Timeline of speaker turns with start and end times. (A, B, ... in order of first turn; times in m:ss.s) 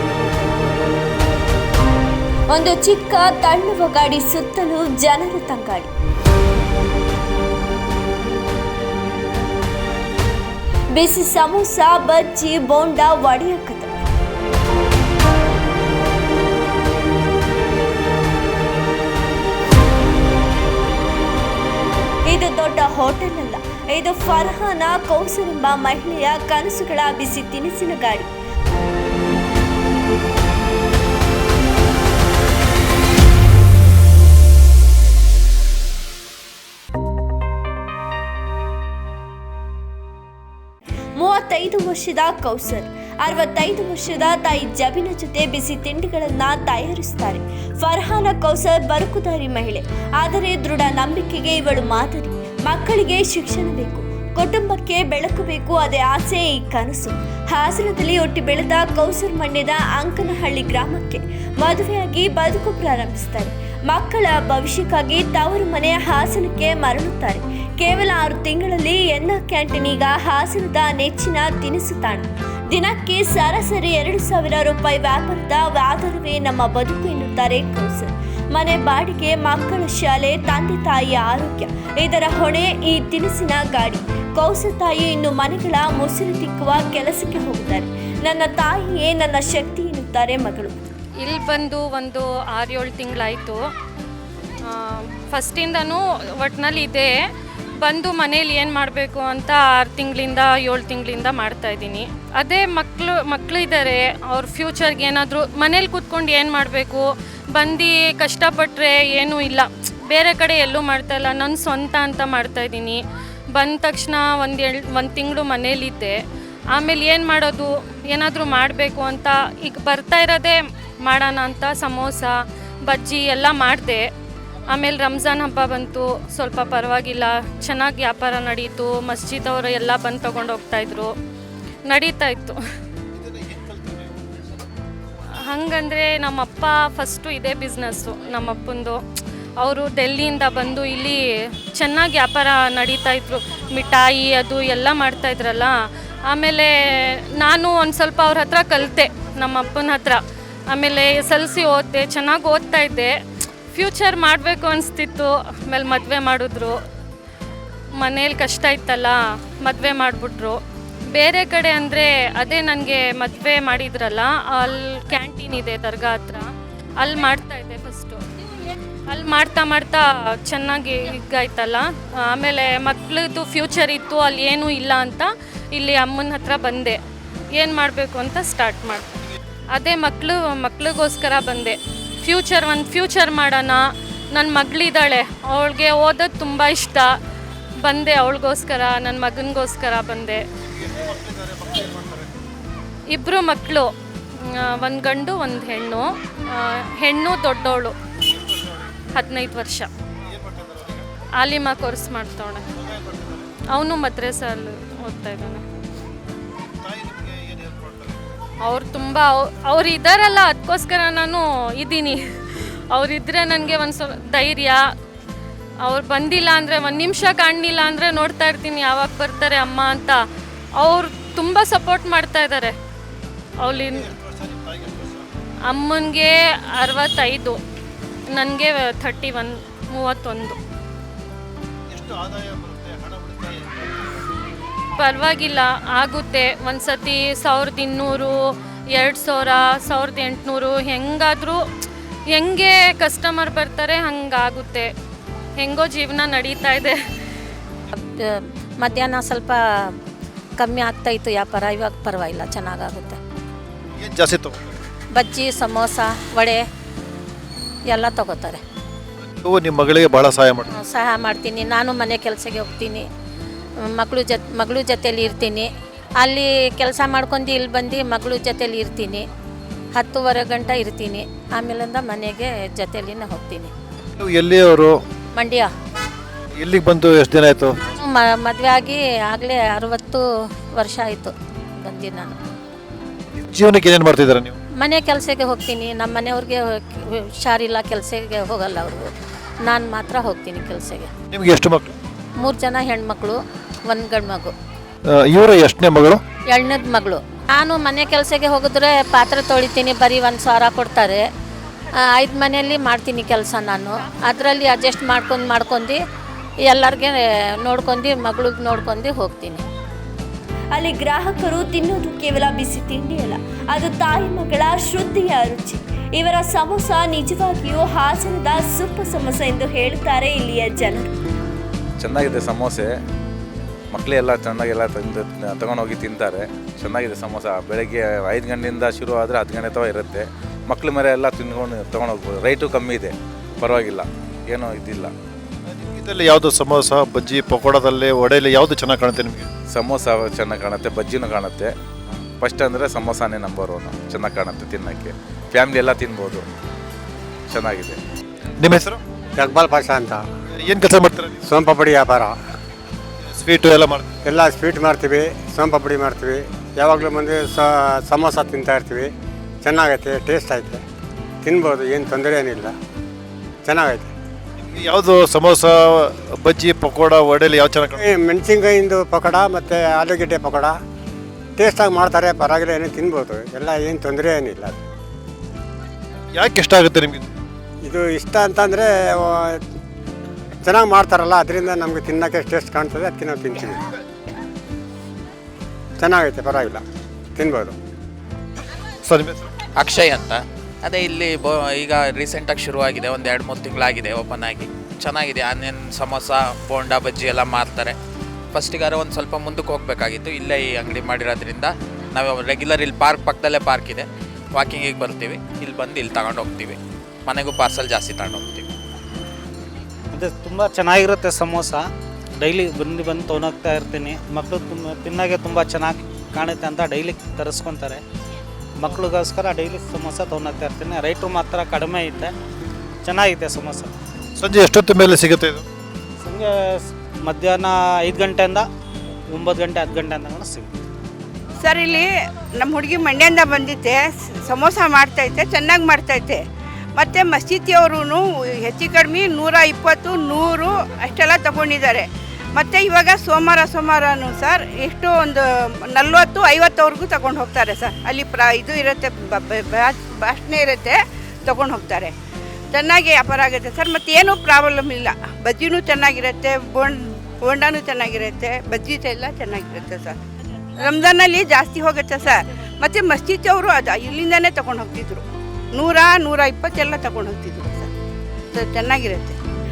0:02.5-0:05.9 A
0:10.9-0:13.9 A
0:22.3-0:28.3 A
0:41.2-1:30.8 A
1:31.2-1:33.6 B
1:34.6-1:37.1 B
1:37.8-1:53.0 B
1:53.6-1:56.2 B
1:56.7-2:04.1 B
2:04.7-2:11.1 B
2:11.8-2:12.6 B
2:15.5-2:19.0 B
2:19.6-2:21.2 B
2:21.7-2:25.7 B
2:26.3-2:30.2 B
2:30.7-2:33.1 B
2:33.7-2:36.8 B
2:38.0-2:40.6 B
2:41.1-2:48.2 B
2:49.1-2:57.0 B
2:57.6-2:59.2 B
2:59.7-3:03.8 B
3:04.3-3:07.1 B
3:07.8-3:10.4 B
3:11.1-3:12.2 C
3:13.1-3:13.9 B
3:14.4-3:17.9 B
3:19.1-3:19.9 B
3:21.4-3:22.6 B
3:23.7-3:25.6 B
3:27.0-3:28.2 C
3:28.6-3:34.8 B
3:35.8-3:40.2 B
3:40.8-3:42.8 B
3:43.6-3:44.1 B
3:44.2-3:45.2 C
3:45.7-3:47.6 B
3:48.3-3:50.6 B
3:52.0-3:53.7 C
3:55.0-3:58.3 B
3:58.9-4:01.6 B
4:02.3-4:04.9 B
4:05.6-4:07.0 B
4:07.9-4:09.9 D
4:10.6-4:13.2 D
4:14.0-4:14.7 C
4:15.1-4:16.6 D
4:17.9-4:18.6 D
4:19.4-4:20.7 C
4:20.7-4:23.1 D
4:24.0-4:25.7 D
4:26.2-4:29.3 D
4:30.0-4:33.7 D
4:34.2-4:35.0 C
4:35.4-4:35.7 D
4:36.6-4:37.9 C
4:38.0-4:40.2 D
4:40.7-4:42.4 D
4:43.4-4:44.6 C
4:44.8-4:49.1 D
4:49.6-4:51.1 D
4:51.3-4:51.9 C
4:52.4-4:54.5 D
4:55.1-4:56.2 C
4:56.5-5:01.2 D
5:02.0-5:06.0 D
5:06.7-5:09.7 D
5:10.7-5:21.2 A
5:22.0-5:22.9 E
5:23.9-5:35.1 E
5:35.7-5:39.5 C
5:39.7-5:41.7 E
5:42.4-5:46.4 E
5:47.5-5:48.0 E
5:48.6-5:49.0 C
5:49.4-5:50.2 F
5:50.6-5:51.4 C
5:51.4-5:52.4 F
5:53.4-5:54.0 C
5:54.2-5:59.1 F
5:59.6-6:00.8 F
6:01.4-6:02.7 F
6:03.6-6:04.1 F
6:04.6-6:08.0 C
6:08.0-6:10.8 F
6:11.6-6:14.8 F
6:16.3-6:17.3 C
6:17.8-6:19.6 F
6:20.6-6:23.8 F
6:26.0-6:26.8 F
6:27.4-6:27.8 F
6:29.0-6:29.5 C
6:29.8-6:38.0 G
6:38.5-6:48.7 G
6:50.1-6:51.9 H
6:52.4-6:58.0 H
6:58.8-7:02.3 H
7:03.0-7:03.9 H
7:04.4-7:05.6 C
7:06.2-7:08.7 H
7:09.3-7:10.7 H
7:11.6-7:12.0 I
7:12.6-7:16.4 I
7:17.0-7:22.0 I
7:22.6-7:25.4 I
7:25.9-7:30.9 I
7:31.5-7:32.1 I
7:32.8-7:40.1 I
7:40.9-7:45.2 I
7:45.8-7:47.9 I
7:48.5-7:49.4 I